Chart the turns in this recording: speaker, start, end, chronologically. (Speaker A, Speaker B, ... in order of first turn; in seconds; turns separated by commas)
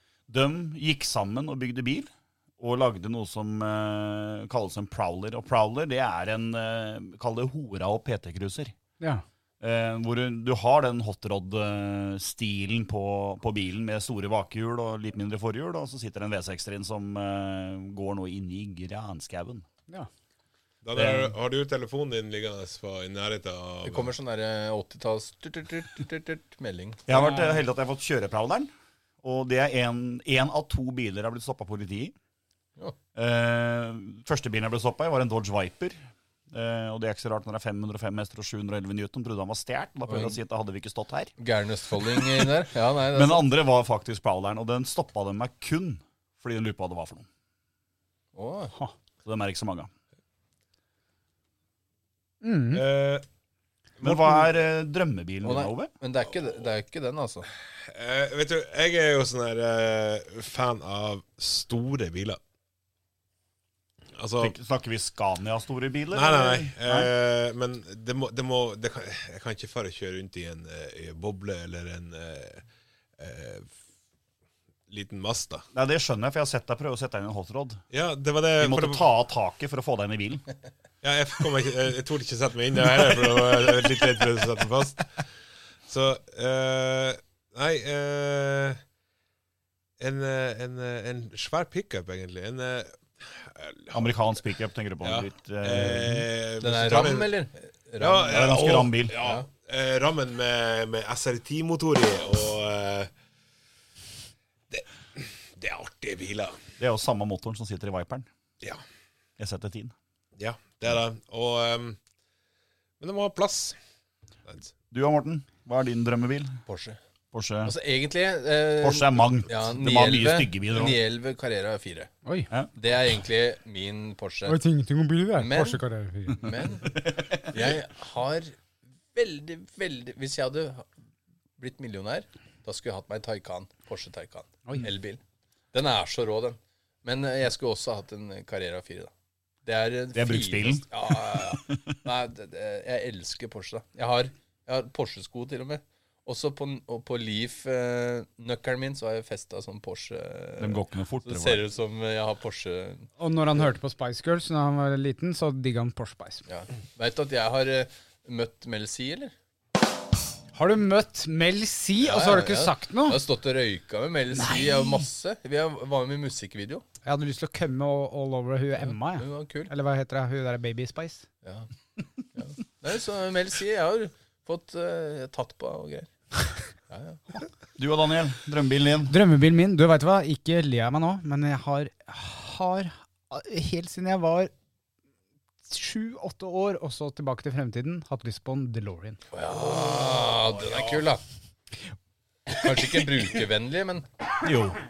Speaker A: 0.3-8.7, Speaker A: 9.6-19.6, Speaker B: 20.8-24.1, Speaker A: 20.9-21.3, Speaker C: 23.9-27.0, Speaker A: 27.1-28.7, Speaker D: 27.1-27.6, Speaker A: 29.2-32.1, Speaker A: 33.2-36.0, Speaker A: 36.5-41.3, Speaker C: 40.1-40.4, Speaker C: 41.4-43.5, Speaker A: 43.1-47.3, Speaker C: 48.3-48.7, Speaker A: 49.2-49.9, Speaker D: 52.4-52.9, Speaker B: 52.7-53.2, Speaker B: 54.0-54.5, Speaker A: 54.0-55.9, Speaker C: 55.4-57.5, Speaker B: 57.9-62.4, Speaker B: 64.2-64.5, Speaker A: 64.4-67.1, Speaker B: 66.1-72.6, Speaker B: 73.2-73.7, Speaker B: 74.9-75.7, Speaker A: 75.7-77.8, Speaker B: 77.9-79.0, Speaker A: 78.6-80.5, Speaker B: 81.0-85.2, Speaker B: 85.9-88.8, Speaker B: 90.0-94.0, Speaker A: 93.9-96.2, Speaker B: 95.0-97.4, Speaker C: 96.6-98.5, Speaker B: 98.0-103.1, Speaker A: 98.2-99.2, Speaker C: 99.2-99.5, Speaker B: 104.7-106.6, Speaker A: 106.8-108.3, Speaker A: 109.4-109.9, Speaker B: 110.4-112.0, Speaker B: 113.0-113.8, Speaker B: 114.5-114.7, Speaker A: 114.9-116.6, Speaker C: 116.7-117.0, Speaker A: 117.3-117.7, Speaker C: 117.6-122.1, Speaker A: 118.8-121.0, Speaker C: 122.8-124.6, Speaker D: 124.5-126.4, Speaker C: 125.4-125.8, Speaker C: 126.4-128.5, Speaker A: 127.1-127.4, Speaker C: 129.1-130.9, Speaker C: 131.6-135.2, Speaker C: 135.7-139.1, Speaker C: 139.6-153.1, Speaker A: 140.1-141.8, Speaker A: 150.6-151.6, Speaker D: 153.2-156.4, Speaker C: 156.5-159.3, Speaker D: 160.5-163.2, Speaker C: 162.0-166.8, Speaker A: 164.4-165.1, Speaker D: 167.1-171.2, Speaker C: 168.9-169.7, Speaker C: 172.3-176.1, Speaker C: 176.9-177.2, Speaker A: 177.8-179.2, Speaker D: 179.1-184.5, Speaker D: 185.6-189.2, Speaker C: 189.3-191.2, Speaker B: 190.1-191.0, Speaker C: 192.5-194.1, Speaker A: 194.5-194.8